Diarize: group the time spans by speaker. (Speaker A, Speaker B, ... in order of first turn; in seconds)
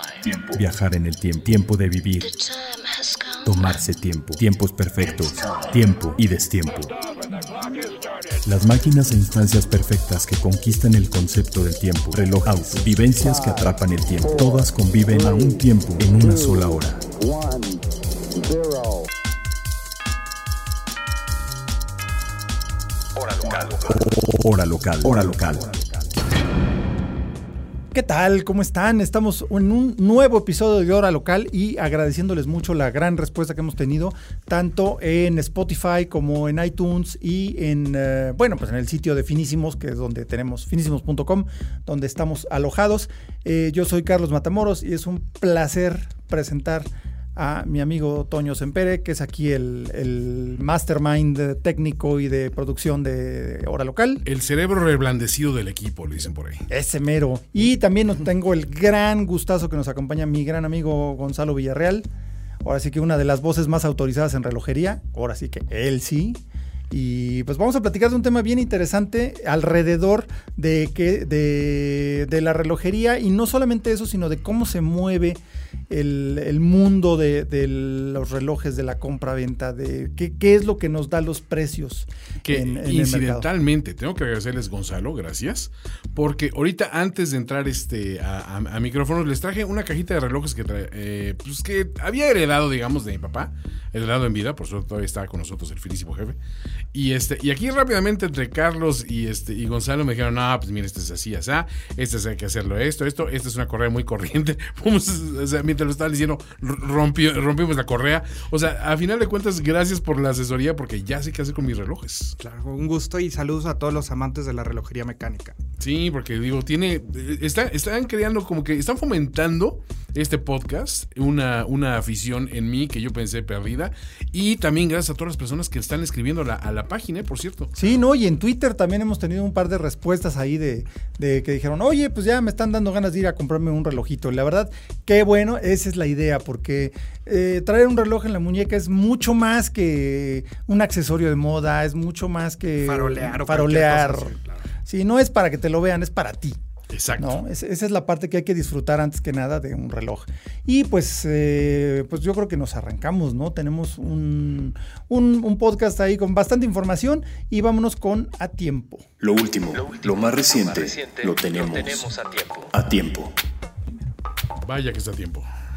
Speaker A: 0.2-2.5, 3.4-6.9, 8.4-17.0, 23.3-25.7, 159.2-163.3
Speaker B: 27.9-54.2, 56.7-62.1, 62.6-83.5, 127.8-144.3, 144.8-146.6, 147.2-159.1
Speaker C: 54.3-56.6, 82.4-96.4, 96.9-112.4, 115.8-127.8, 146.9-147.4, 164.6-165.5
Speaker D: 112.4-115.6, 142.8-144.7